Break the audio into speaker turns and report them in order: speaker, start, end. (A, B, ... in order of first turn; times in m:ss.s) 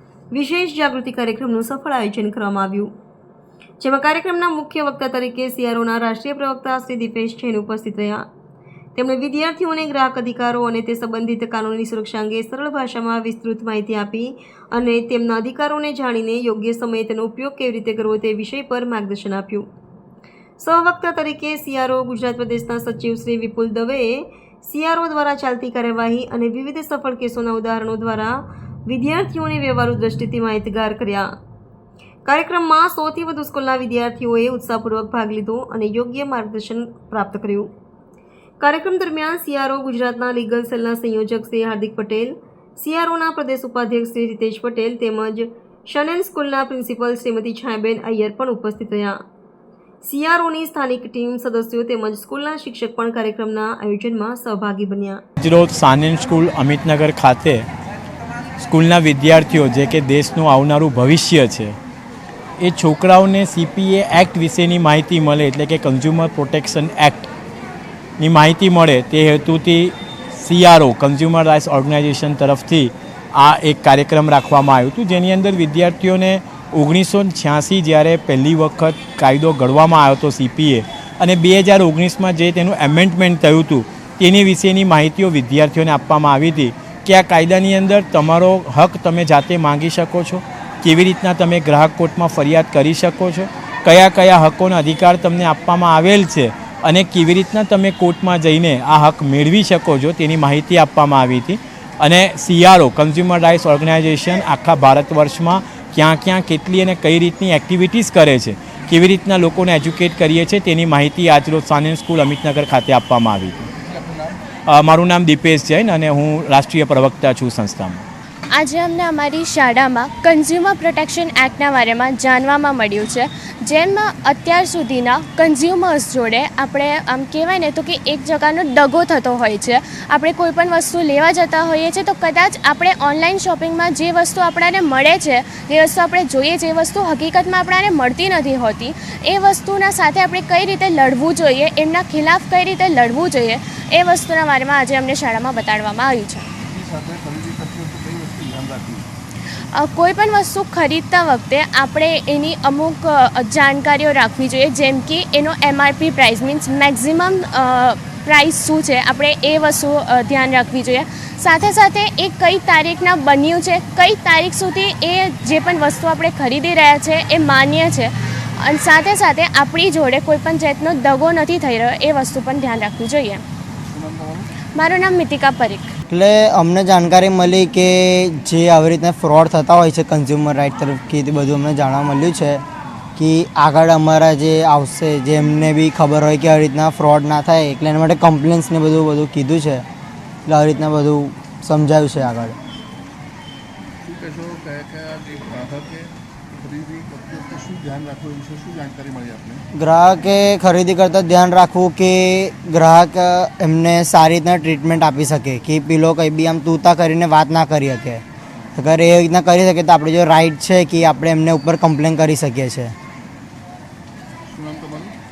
0:00.3-0:02.9 A
0:03.8-0:08.2 A
0:08.9-0:19.6 A
0:20.6-0:31.3 A
0:32.2-0:37.7 A
0:38.6-0:49.2 A
0:50.0-0:55.2 A
0:55.4-0:57.7 B
0:58.6-1:01.8 B
1:02.6-1:07.3 B
1:08.2-1:53.7 B
1:53.8-1:54.4 C
1:54.6-1:58.0 B
1:58.5-2:26.4 D
2:26.6-2:29.1 C
2:29.7-2:53.4 D
2:53.8-2:54.5 C
2:54.7-2:55.9 D
2:56.1-3:02.6 E
3:03.2-3:09.8 E
3:10.4-3:12.6 E
3:14.0-3:19.6 C
3:19.7-3:28.2 E
3:28.8-3:32.9 E
3:34.4-3:35.1 C